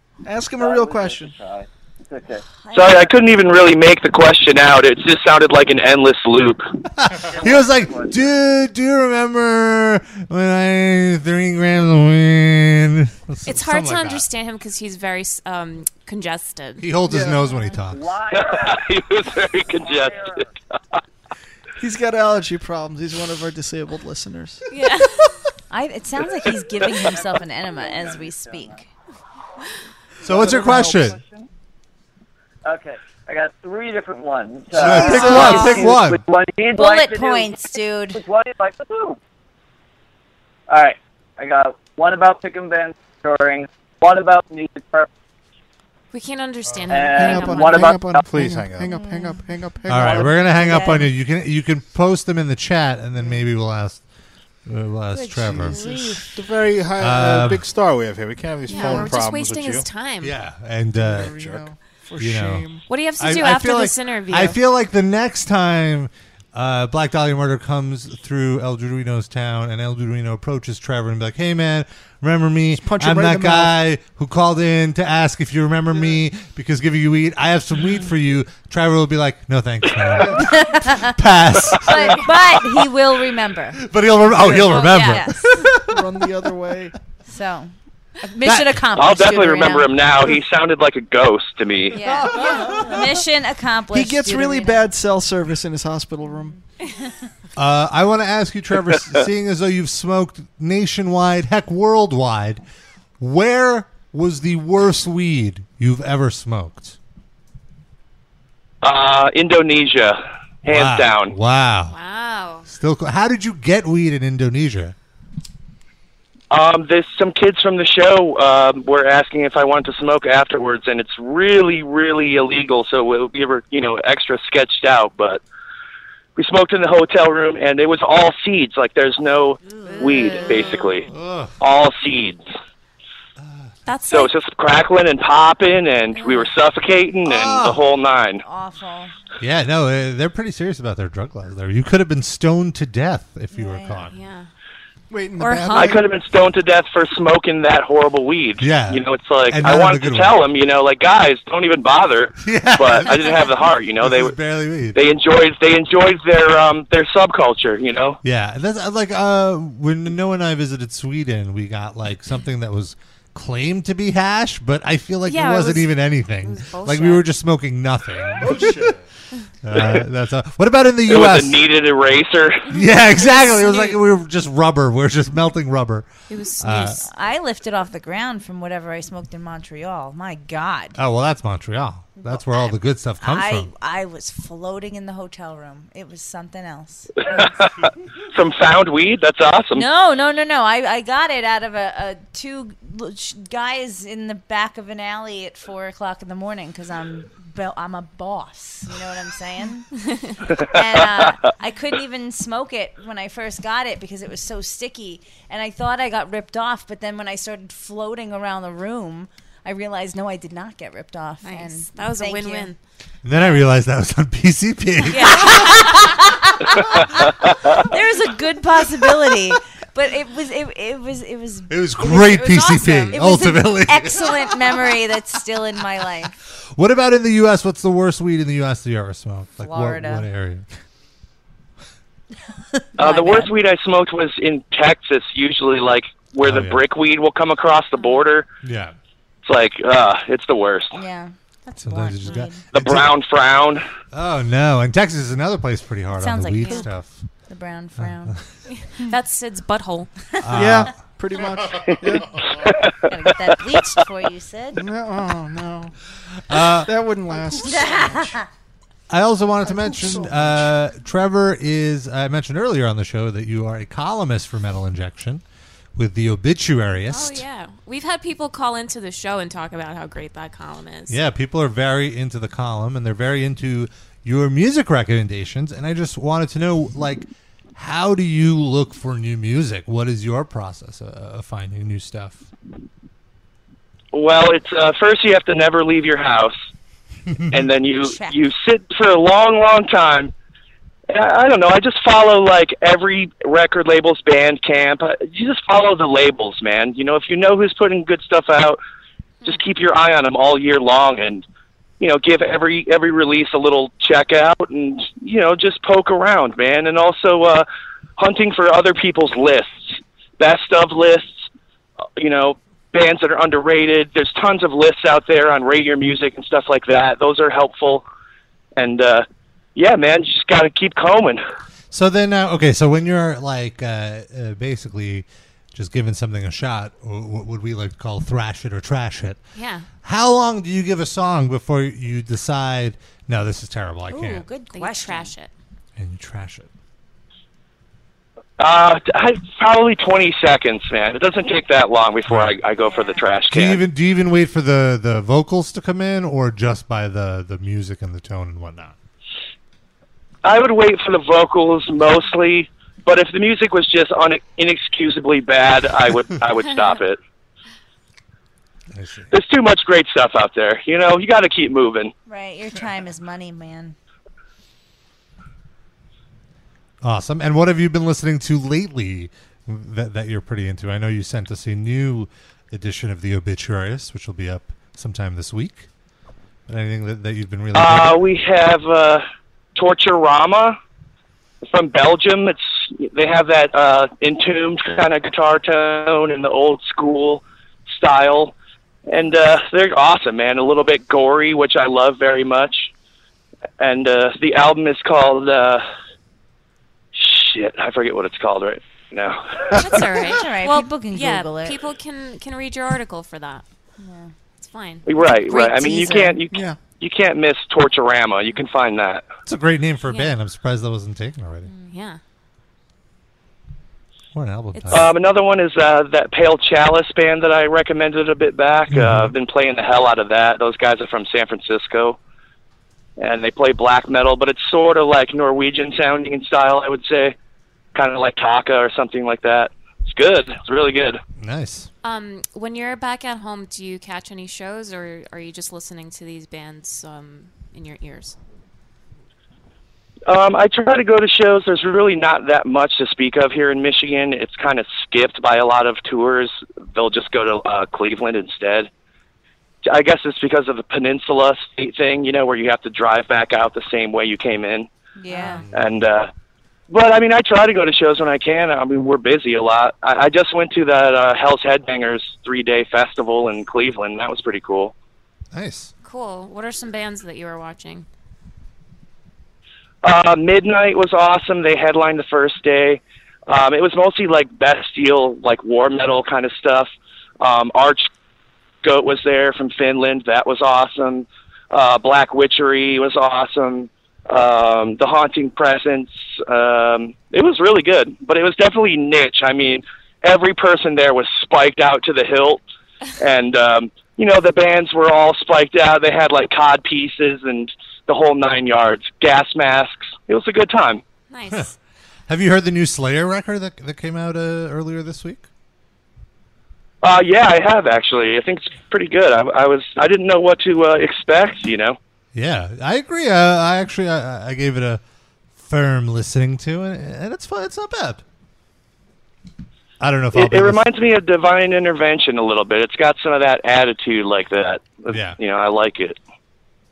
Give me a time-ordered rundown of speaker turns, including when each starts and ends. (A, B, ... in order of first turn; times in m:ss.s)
0:00.2-0:01.3 A
0:00.6-0:03.0 B
0:02.6-0:03.1 C
0:02.7-0:06.6 D
0:07.0-0:14.2 E
0:07.1-0:08.3 B
0:13.4-0:16.9 F
0:16.8-0:18.0 E
0:17.0-0:17.4 A
0:17.9-0:18.8 B
0:18.3-0:20.3 D
0:19.6-0:20.5 B
0:21.8-0:24.6 A
0:24.7-0:25.3 F
0:25.7-0:28.8 C
0:27.0-0:28.8 B
0:30.2-0:31.2 E
0:30.2-0:31.5 B
0:30.4-0:30.9 A
0:32.6-0:39.2 B
0:34.7-0:35.9 A
0:34.7-0:36.2 E
0:35.1-0:35.9 C
0:36.7-0:38.2 C
0:40.7-0:45.1 B
0:46.1-0:47.9 F
0:46.9-0:48.2 B
0:47.1-0:51.1 A
0:48.2-0:49.0 G
0:48.9-0:49.4 C
0:49.9-0:54.0 E
0:50.6-0:51.0 C
0:54.7-0:55.8 E
0:55.1-0:56.2 C
0:55.4-0:56.3 A
0:56.3-0:59.8 G
0:57.0-0:57.6 E
0:58.7-1:00.3 F
0:58.7-0:59.1 A
1:00.2-1:01.4 E
1:01.0-1:02.8 A
1:01.3-1:01.6 G
1:02.2-1:02.7 E
1:02.9-1:04.6 F
1:03.2-1:21.9 E
1:12.8-1:13.7 A
1:15.9-1:16.2 A
1:19.9-1:20.3 D
1:20.4-1:21.2 C
1:21.8-1:23.9 C
1:23.8-1:25.9 E
1:24.3-1:24.9 A
1:24.6-1:25.7 C
1:25.7-1:26.9 A
1:27.3-1:29.9 C
1:28.4-1:28.7 E
1:28.9-1:32.0 D
1:31.9-1:34.8 C
1:31.9-1:33.1 A
1:33.9-1:36.6 A
1:37.6-1:42.6 E
1:43.2-1:47.0 E
1:48.8-1:51.3 D
1:50.7-1:52.0 E
1:51.9-1:52.7 F
1:52.7-1:54.9 E
1:56.5-2:05.4 D
2:06.4-2:11.1 D
2:09.7-2:10.8 C
2:11.1-2:11.6 E
2:11.6-2:12.4 D
2:13.4-2:13.7 E
2:13.8-2:14.3 F
2:14.1-2:18.4 D
2:16.2-2:16.5 F
2:17.2-2:17.8 E
2:18.4-2:19.1 C
2:19.4-2:24.1 E
2:23.5-2:24.0 C
2:24.0-2:24.5 F
2:25.1-2:26.0 A
2:25.4-2:26.0 F
2:25.7-2:34.4 D
2:28.6-2:30.4 E
2:32.4-2:33.3 E
2:34.0-2:35.0 E
2:34.9-2:38.2 D
2:38.2-2:48.9 E
2:45.2-2:47.3 F
2:48.4-2:49.0 G
2:49.6-2:51.6 E
2:49.7-2:50.0 D
2:51.0-2:52.7 D
2:52.7-2:57.0 E
2:53.2-2:54.0 F
2:56.3-2:57.1 F
2:57.0-3:01.0 C
3:01.0-3:03.7 E
3:02.2-3:02.6 C
3:03.2-3:07.5 C
3:07.3-3:09.8 D
3:09.7-3:32.7 C
3:20.5-3:21.5 D
3:31.4-3:32.8 F
3:33.2-3:35.7 E
3:35.1-3:36.2 F
3:35.1-3:46.4 C
3:37.4-3:37.8 D
3:41.7-3:44.4 E
3:46.8-3:50.6 E
3:49.6-3:50.3 C
3:53.0-3:53.5 C
3:53.0-3:58.5 D
3:56.4-3:56.8 E
3:58.0-3:58.2 F
3:58.6-3:58.9 E
3:59.4-4:01.0 D
4:00.9-4:02.6 C
4:01.8-4:03.1 E
4:02.7-4:03.8 D
4:04.1-4:07.3 E
4:06.2-4:06.9 C
4:06.6-4:06.9 F
4:07.5-4:08.4 C
4:08.0-4:08.4 E
4:08.7-4:10.1 F
4:10.4-4:10.9 E
4:10.5-4:12.4 A
4:12.6-4:13.3 D
4:13.0-4:14.8 C
4:14.7-4:15.9 A
4:16.5-4:16.9 E
4:16.8-4:18.3 A
4:17.5-4:18.5 C
4:19.1-4:25.4 E
4:19.6-4:20.6 A
4:26.0-4:27.4 E
4:27.1-4:31.2 F
4:31.1-4:42.5 E
4:44.1-4:46.6 D
4:47.5-4:50.3 D
4:48.0-4:48.4 C
4:51.1-4:58.8 D
4:59.4-5:01.4 D
5:02.0-5:11.5 D
5:12.2-5:18.0 D
5:18.8-5:21.4 D
5:21.9-5:29.4 E
5:29.5-5:29.9 F
5:30.0-5:34.4 E
5:34.1-5:35.3 C
5:34.7-5:35.5 F
5:36.0-5:36.7 E
5:38.6-5:43.8 D
5:42.3-5:42.6 E
5:42.8-5:43.2 F
5:43.5-5:48.9 E
5:50.4-5:57.2 D
5:58.9-5:59.3 E
5:59.3-6:02.1 D
6:02.2-6:03.9 C
6:07.0-6:15.9 E
6:16.7-6:18.2 E
6:17.7-6:20.8 D
6:21.6-6:28.5 D
6:29.1-6:32.9 D
6:33.8-6:35.8 D
6:37.1-6:39.9 D
6:39.7-6:43.6 F
6:40.2-6:41.8 C
6:44.0-6:44.3 C
6:44.6-6:46.3 F
6:45.0-6:49.3 D
6:45.8-6:46.2 C
6:45.8-6:46.8 A
6:49.4-6:51.7 E
6:50.0-6:50.3 F
6:51.9-6:52.2 F
6:54.3-6:55.1 E
6:54.7-6:55.1 F
6:54.9-7:02.2 D
6:58.9-6:59.3 E
7:03.2-7:07.4 D
7:07.9-7:11.2 D
7:11.4-7:11.9 E
7:12.0-7:18.4 F
7:20.3-7:28.9 D
7:29.8-7:34.9 D
7:35.2-7:35.6 C
7:35.4-7:35.8 E
7:35.7-7:36.3 D
7:36.9-7:44.9 D
7:45.5-7:45.9 E
7:46.0-7:48.1 F
7:50.0-7:58.1 D
7:58.8-8:12.6 D
8:13.2-8:21.0 D
8:21.3-8:21.7 F
8:22.3-8:25.5 E
8:27.0-8:32.0 D
8:32.3-8:35.0 E
8:35.6-8:38.2 E
8:40.0-8:40.8 E
8:40.3-8:46.2 D
8:45.1-8:45.4 E